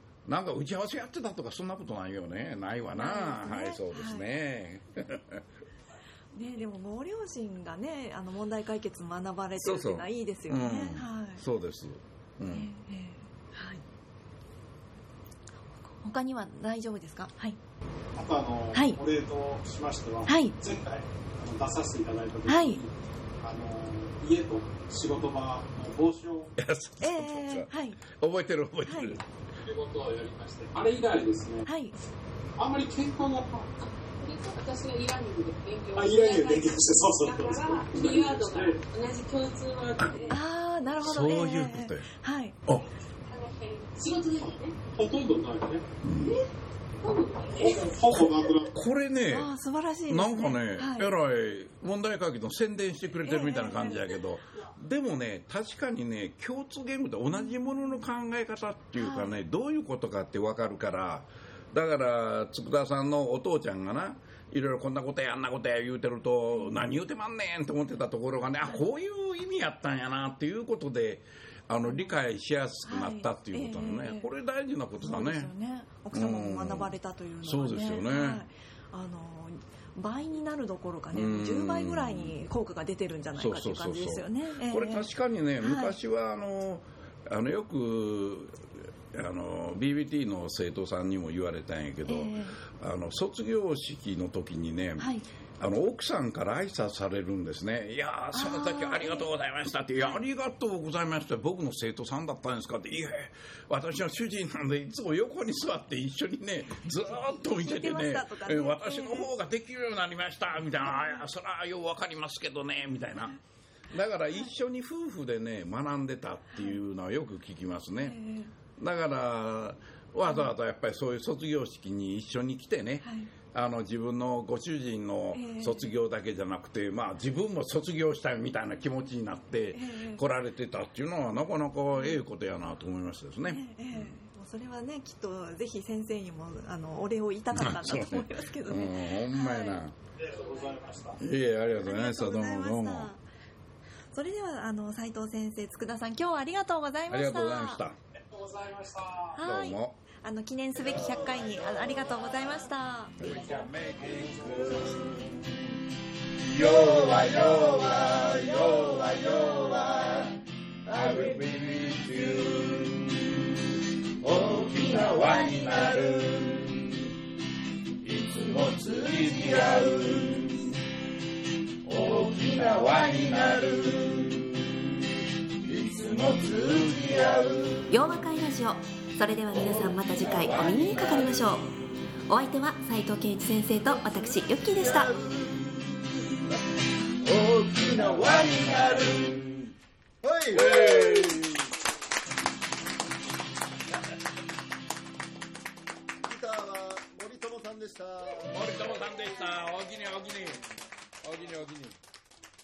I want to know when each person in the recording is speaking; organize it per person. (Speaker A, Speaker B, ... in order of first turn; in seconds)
Speaker A: 0.3-5.4, 9.6-12.7, 26.6-29.2, 41.0-42.1, 46.0-46.4, 48.7-49.5, 50.1-75.5, 76.1-78.4, 81.1-82.4, 83.4-113.4, 113.9-118.2, 118.8-134.2, 137.5-140.0, 141.2-143.1, 147.1-148.0, 149.4-150.0, 153.2-155.7, 156.4-163.6, 164.2-167.1, 168.0-170.7, 171.8-174.7, 175.6-177.9, 179.5-181.5, 187.6-189.4, 190.5-191.6, 198.4-200.6, 201.2-202.0
Speaker B: 2.9-4.3, 6.3-11.4, 12.5-13.8, 15.9-17.6, 18.7-19.0, 20.3-20.6, 22.5-22.8, 27.0-28.0, 28.9-29.2, 31.6-32.0, 40.3-42.6, 49.3-51.1, 53.2-54.1, 57.3-58.0, 59.0-59.4, 66.5-66.8, 71.8-72.2, 72.9-74.3, 75.0-85.1, 85.6-86.0, 92.1-92.6, 95.0-95.2, 98.3-99.3, 107.1-109.3, 110.8-111.2, 118.0-118.5, 120.3-120.5, 123.0-123.3, 125.3-125.9, 129.7-130.2, 131.9-132.2, 133.4-139.8, 141.8-143.2, 144.1-147.8, 149.3-153.2, 177.9-181.7, 182.3-185.2
Speaker C: 18.2-26.5, 29.6-31.7, 32.6-33.7, 36.0-38.8, 44.4-45.9, 47.6-48.7, 140.2-141.2, 148.2-149.4
Speaker D: 33.8-40.4, 43.3-44.8, 47.0-48.0
Speaker E: 187.4-189.1, 190.2-190.8, 196.2-198.5